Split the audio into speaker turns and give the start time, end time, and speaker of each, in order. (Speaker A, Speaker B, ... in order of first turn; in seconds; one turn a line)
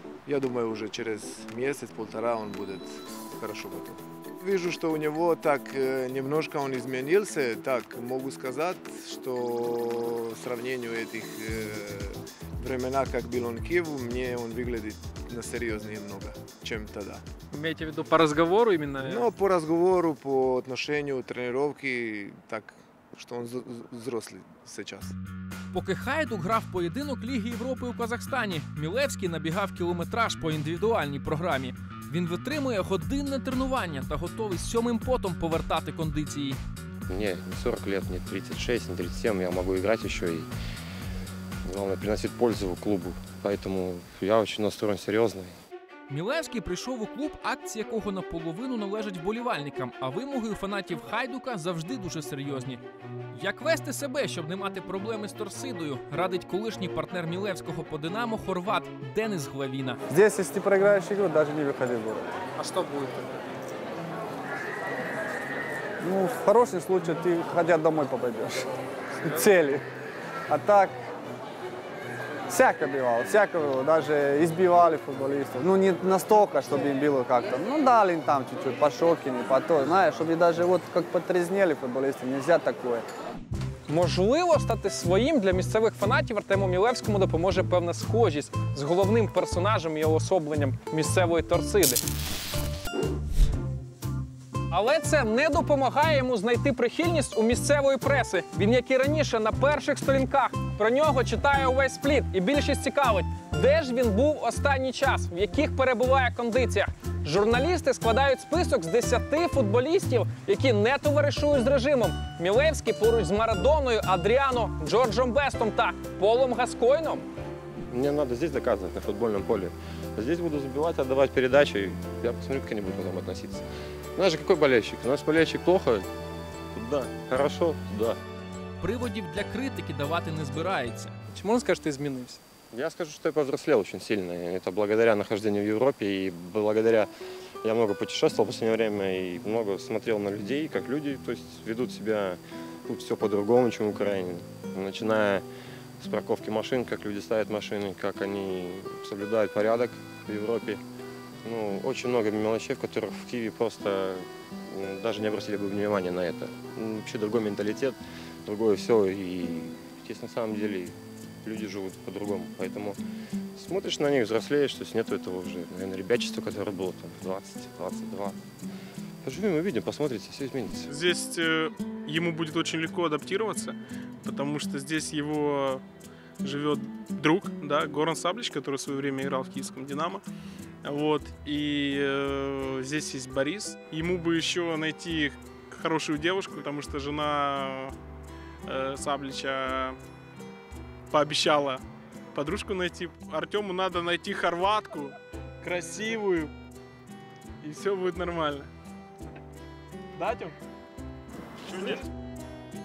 Speaker A: 0.3-17.2
Speaker B: 17.5-19.3
Speaker A: 19.0-25.2
Speaker C: 25.7-36.6
Speaker D: 37.1-40.5
Speaker D: 41.6-45.5
Speaker C: 46.1-52.8
Speaker C: 53.3-60.0
Speaker E: 60.1-62.3
Speaker B: 62.6-63.3
Speaker E: 66.0-68.6
Speaker E: 69.2-69.8
Speaker E: 70.5-71.0
Speaker E: 72.5-83.1
Speaker B: 83.9-92.0
Speaker B: 94.7-117.3
Speaker D: 117.9-123.7
Speaker D: 124.2-126.1
Speaker D: 126.7-128.2
Speaker C: 128.8-131.2
Speaker B: 131.3-132.4
Speaker D: 132.7-137.1
Speaker D: 137.6-145.4
Speaker D: 146.0-150.8
Speaker D: 151.4-163.0
Speaker D: 163.6-168.4
Speaker D: 169.2-170.9
Speaker F: 170.9-175.8
Speaker F: 176.4-180.2
Speaker F: 180.8-187.9
Speaker F: 188.7-190.0
Speaker F: 191.1-191.8
Speaker F: 192.3-196.5
Speaker F: 197.6-198.7
Speaker F: 200.2-200.6
Speaker F: 201.7-202.0